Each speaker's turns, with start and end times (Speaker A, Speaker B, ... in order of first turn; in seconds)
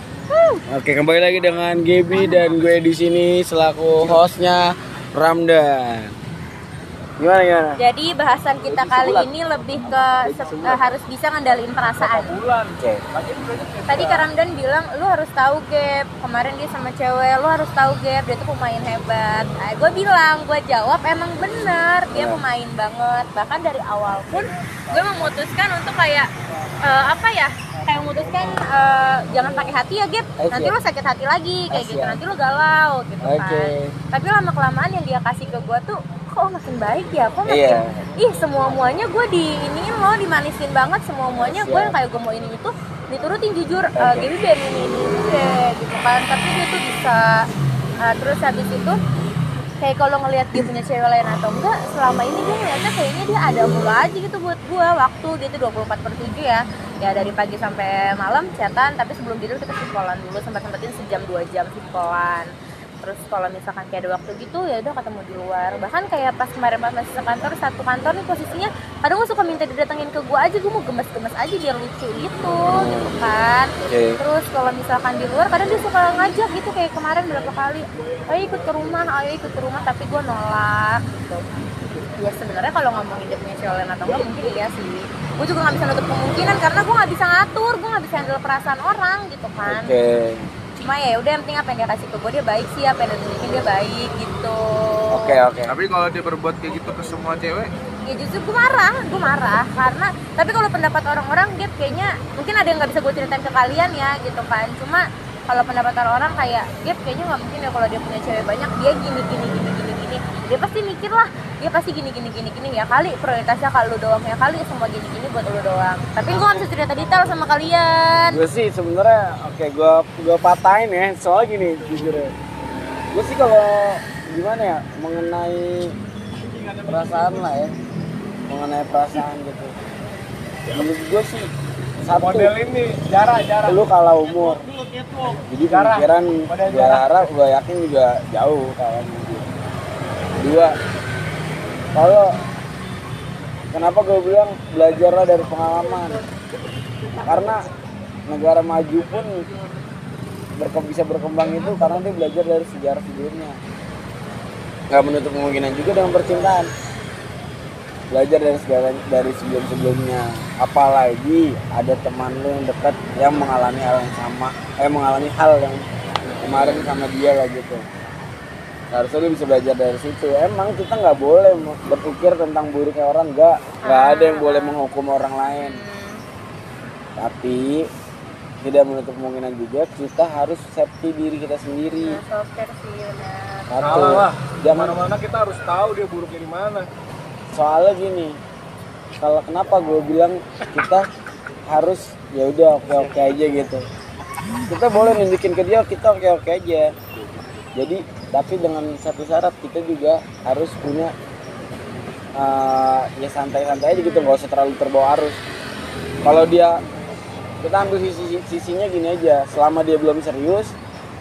Speaker A: 0.3-0.6, 2.1-2.5, 7.8-12.4, 13.9-26.3, 26.8-47.2, 48.0-49.0, 49.8-62.5, 63.0-81.4, 82.2-89.9, 90.8-95.4, 98.1-118.4, 173.8-174.8, 175.5-176.2, 182.0-184.1, 203.9-204.4
Speaker B: 0.7-6.1, 7.2-7.8, 22.1-22.4, 30.4-30.7, 31.7-32.2, 33.2-34.0, 37.5-38.1, 41.4-42.0, 44.0-44.3, 72.7-73.1, 73.9-74.2, 89.7-90.5, 95.1-95.8, 118.3-122.3, 123.1-125.9, 126.8-127.7, 128.5-129.7, 130.7-131.5, 132.0-132.5, 133.7-134.6, 135.4-139.5, 140.4-140.7, 141.9-142.3, 143.7-146.2, 147.2-147.7, 148.3-149.4, 150.6-153.6, 154.9-156.7, 158.1-165.8, 166.4-167.8, 168.9-175.8, 177.2-177.9, 178.6-182.2, 183.7-185.0, 187.6-188.3, 189.2-191.1, 191.7-193.8, 194.7-196.9, 197.8-201.1, 202.4-205.4, 206.2-206.8, 207.6-210.7
Speaker C: 8.8-9.3, 9.9-10.8, 95.7-97.7
Speaker D: 12.0-14.3, 132.2-133.8, 135.7-137.2, 183.8-186.9